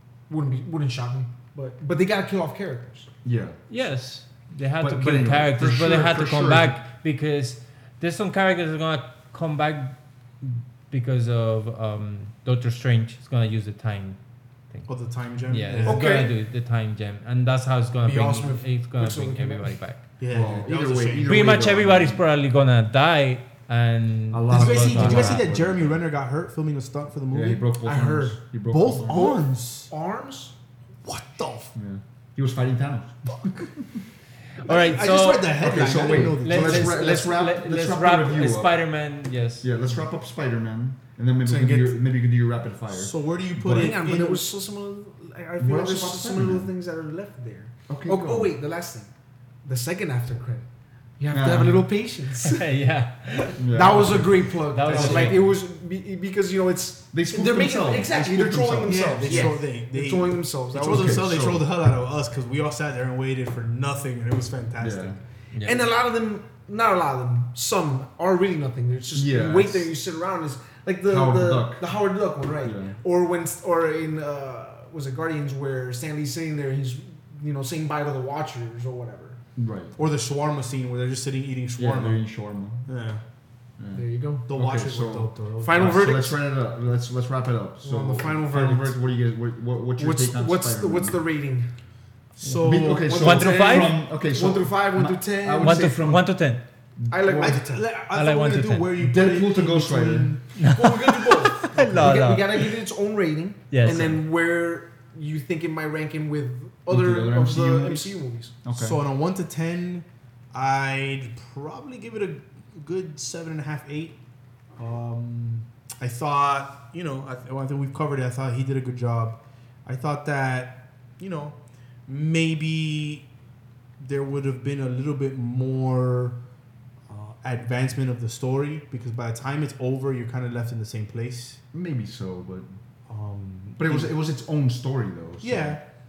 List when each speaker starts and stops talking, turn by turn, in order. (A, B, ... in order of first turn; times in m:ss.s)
0:00.3-0:03.1 A
0:03.2-0:03.6 B
0:03.7-0:14.2 C
0:04.8-0:06.8 B
0:14.9-0:16.0 D
0:15.5-0:20.0 C
0:15.8-0:16.3 A
0:18.0-0:19.8 A
0:20.2-0:21.6 D
0:20.3-0:22.2 B
0:21.2-0:25.5 C
0:24.3-0:26.0 B
0:24.5-0:27.6 D
0:27.3-0:29.4 B
0:27.8-0:28.4 A
0:28.6-0:29.9 D
0:29.0-0:30.5 A
0:31.0-0:31.7 D
0:31.7-0:34.0 B
0:34.6-0:39.7 C
0:34.6-0:37.2 D
0:35.5-0:38.8 B
0:39.6-0:44.0 B
0:41.5-0:41.7 A
0:41.5-0:41.9 D
0:42.9-0:44.5 D
0:43.7-0:49.1 A
0:45.6-0:46.7 B
0:47.9-0:48.5 B
0:49.6-0:50.7 A
0:51.2-0:52.6 A
0:51.3-0:51.8 B
0:52.4-0:55.5 C
0:53.6-0:55.4 B
0:53.7-1:01.3 A
0:57.1-0:59.5 B
0:58.8-1:05.2 D
1:00.8-1:01.7 B
1:04.8-1:05.2 B
1:05.5-1:05.8 C
1:05.6-1:19.4 A
1:09.1-1:09.9 B
1:11.0-1:11.8 B
1:12.6-1:12.9 B
1:19.6-1:20.0 B
1:20.0-1:22.2 D
1:21.8-1:22.9 B
1:22.9-1:23.2 D
1:23.8-1:31.2 B
1:23.9-1:24.5 A
1:24.5-1:26.1 D
1:25.6-1:26.4 A
1:27.8-1:29.0 A
1:30.0-1:31.7 A
1:32.4-1:33.2 D
1:32.6-1:36.3 B
1:32.7-1:35.9 A
1:33.2-1:34.0 C
1:35.6-1:36.6 C
1:37.0-1:37.6 B
1:37.1-1:37.9 A
1:37.3-1:42.0 D
1:38.1-1:38.9 C
1:39.0-1:40.4 B
1:40.6-1:42.7 C
1:40.6-1:48.5 A
1:43.7-1:44.1 C
1:43.8-1:44.1 D
1:46.9-1:49.0 B
1:48.7-1:54.2 D
1:54.8-2:01.6 D
2:02.1-2:03.3 D
2:04.0-2:06.4 D
2:07.1-2:11.6 D
2:11.7-2:12.7 B
2:13.1-2:14.1 D
2:13.8-2:15.8 B
2:15.4-2:15.8 D